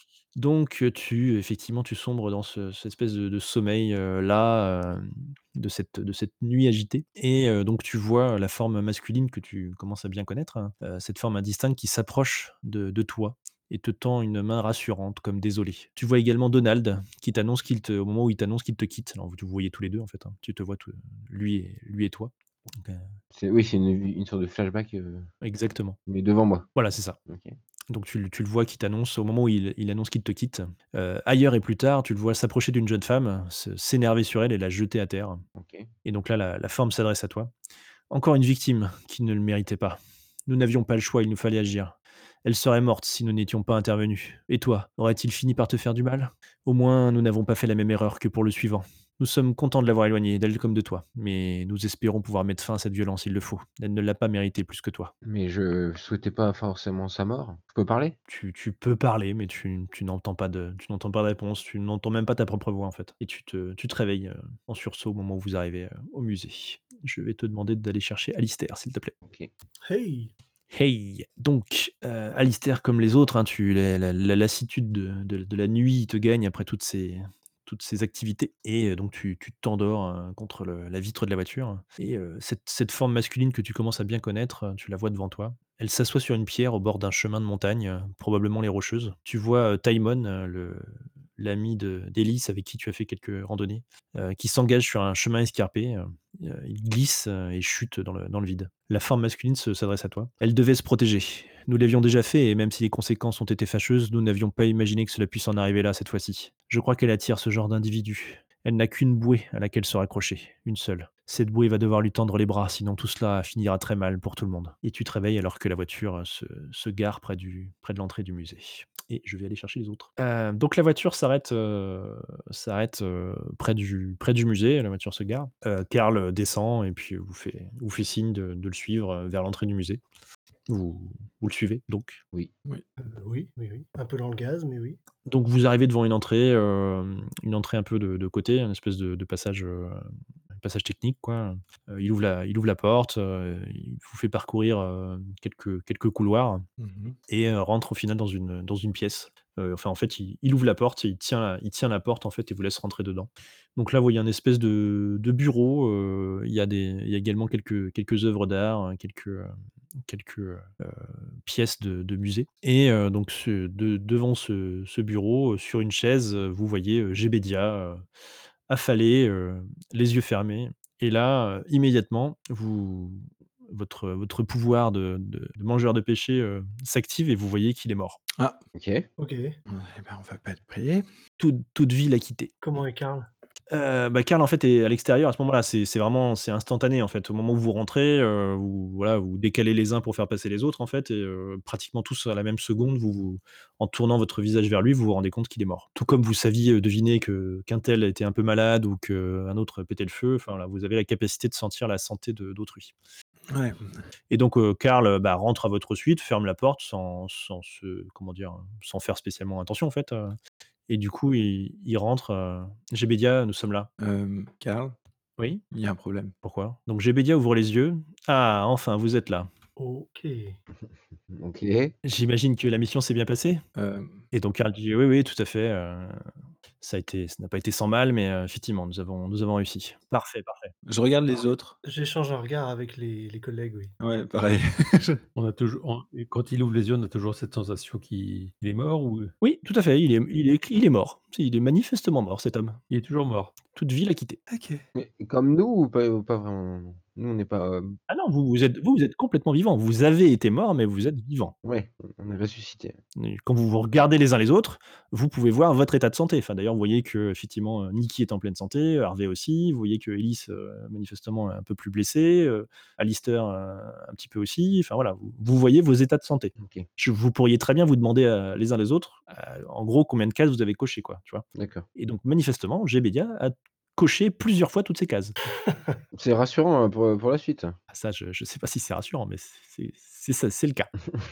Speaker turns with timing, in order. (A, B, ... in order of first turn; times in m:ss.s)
0:00.4-0:23.1 A
0:23.3-0:25.3 B
0:25.4-0:26.0 A
0:26.1-0:26.7 B
0:26.8-0:27.2 A
0:27.3-0:27.6 B
0:27.9-0:35.4 A
0:35.6-0:35.9 B
0:36.0-0:37.5 A
0:38.1-0:55.1 A
0:55.2-0:58.2 B
0:58.3-1:09.1 A
1:09.8-1:10.3 C
1:10.7-2:10.0 A
2:10.7-2:12.2 A
2:13.0-2:15.0 C
2:15.3-2:20.1 A
2:20.6-2:26.6 A
2:26.8-2:27.2 D
2:27.3-2:39.5 A
2:40.0-2:48.0 A
2:48.7-2:58.2 A
2:58.8-2:59.1 B
2:59.2-2:59.6 C
2:59.7-3:01.0 D
3:01.4-3:02.5 A
3:02.6-3:03.3 C
3:03.7-3:22.9 A
3:23.5-3:23.9 D
3:24.3-3:33.9 A
3:34.0-3:35.0 D
3:35.7-3:36.3 D
3:36.4-3:39.5 A
3:39.8-3:40.6 C
3:41.3-3:41.9 B
3:42.0-3:43.6 A
3:43.8-3:44.2 D
3:44.3-3:46.3 A
3:46.8-3:50.7 A
3:50.9-3:51.8 D
3:51.8-3:53.9 C
3:54.0-3:55.2 D
3:55.4-3:59.3 E
3:59.4-4:02.8 A
4:02.9-4:03.6 E
4:03.7-4:04.4 A
4:04.5-4:04.8 D
4:05.0-4:08.0 B
4:08.1-4:11.6 A
4:11.6-4:13.0 B
4:13.2-4:31.4 A
4:26.6-4:26.9 B
4:31.6-4:31.8 B
4:32.0-4:35.3 A
4:36.2-4:37.8 B
4:37.9-4:40.9 A